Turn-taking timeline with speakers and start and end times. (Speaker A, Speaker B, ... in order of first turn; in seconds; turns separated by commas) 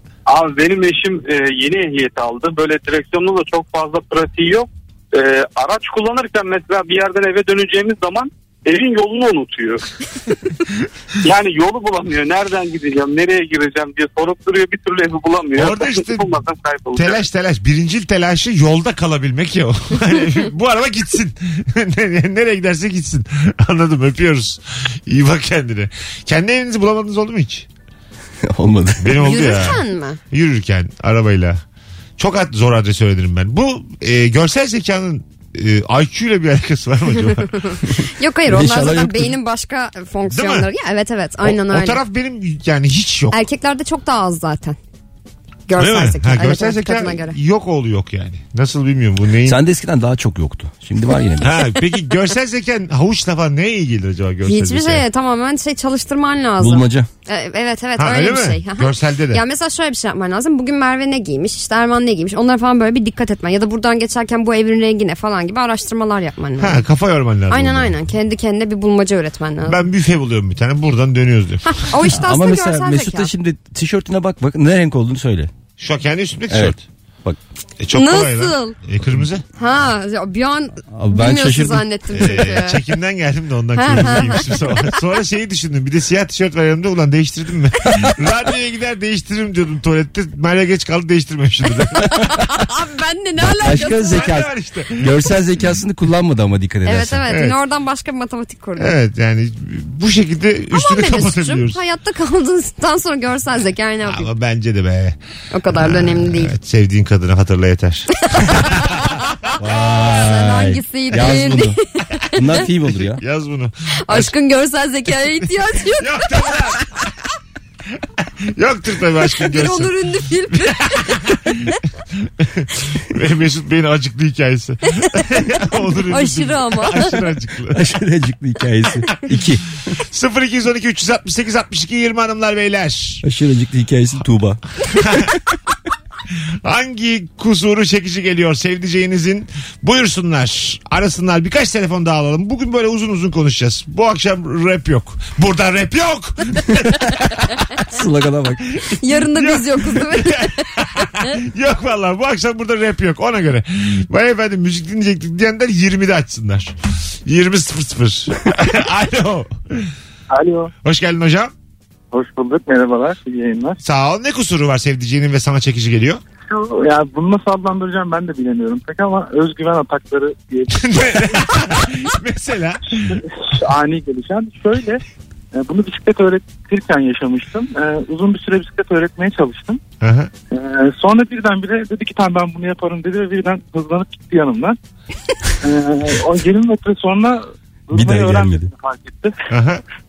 Speaker A: 0.3-9.8, Speaker A: 11.2-17.2, Speaker B: 15.6-16.3, Speaker B: 16.9-27.7, Speaker C: 28.5-29.2, Speaker B: 29.0-31.6, Speaker D: 29.2-30.2, Speaker B: 32.2-37.6, Speaker D: 37.5-42.0, Speaker C: 38.5-39.3, Speaker B: 40.3-40.7, Speaker B: 41.4-43.4, Speaker D: 43.3-44.8, Speaker D: 45.7-47.4, Speaker B: 45.8-49.6, Speaker C: 49.5-51.5, Speaker B: 51.4-55.0, Speaker D: 54.4-66.8, Speaker C: 56.6-57.1, Speaker B: 58.0-59.4, Speaker B: 66.6-68.0, Speaker D: 67.5-69.8, Speaker B: 69.7-71.8, Speaker D: 71.7-73.3, Speaker C: 72.1-75.5, Speaker B: 75.8-76.8, Speaker C: 76.5-77.4, Speaker B: 77.8-79.4, Speaker D: 77.9-78.7, Speaker D: 79.6-82.8, Speaker C: 80.9-81.8, Speaker B: 82.1-92.1, Speaker D: 83.8-84.8, Speaker D: 92.0-94.4, Speaker C: 93.4-97.2, Speaker B: 94.1-95.2, Speaker D: 96.8-98.9, Speaker B: 97.3-97.6, Speaker B: 98.8-101.8, Speaker D: 100.7-104.3, Speaker B: 104.0-105.2, Speaker D: 105.5-106.5, Speaker B: 105.7-108.9, Speaker D: 108.3-112.7, Speaker C: 109.6-111.8, Speaker C: 112.3-113.2, Speaker B: 113.1-114.3, Speaker D: 114.1-116.8, Speaker B: 116.0-116.9, Speaker B: 118.5-120.0, Speaker D: 119.4-121.8, Speaker B: 120.5-127.9, Speaker D: 126.1-127.2, Speaker C: 127.7-129.7, Speaker B: 130.1-133.2, Speaker C: 133.2-134.6, Speaker B: 134.9-135.3, Speaker B: 136.6-147.5, Speaker C: 147.9-148.8, Speaker D: 149.0-150.7, Speaker B: 149.2-159.9, Speaker E: 160.3-160.7, Speaker B: 160.8-161.5, Speaker E: 162.1-163.8, Speaker B: 163.8-166.2, Speaker E: 166.5-171.0, Speaker B: 170.7-173.0, Speaker E: 173.4-175.0, Speaker E: 175.5-179.8, Speaker B: 180.0-180.3, Speaker E: 180.5-184.8, Speaker E: 185.6-189.3, Speaker C: 187.9-188.7, Speaker B: 189.5-189.8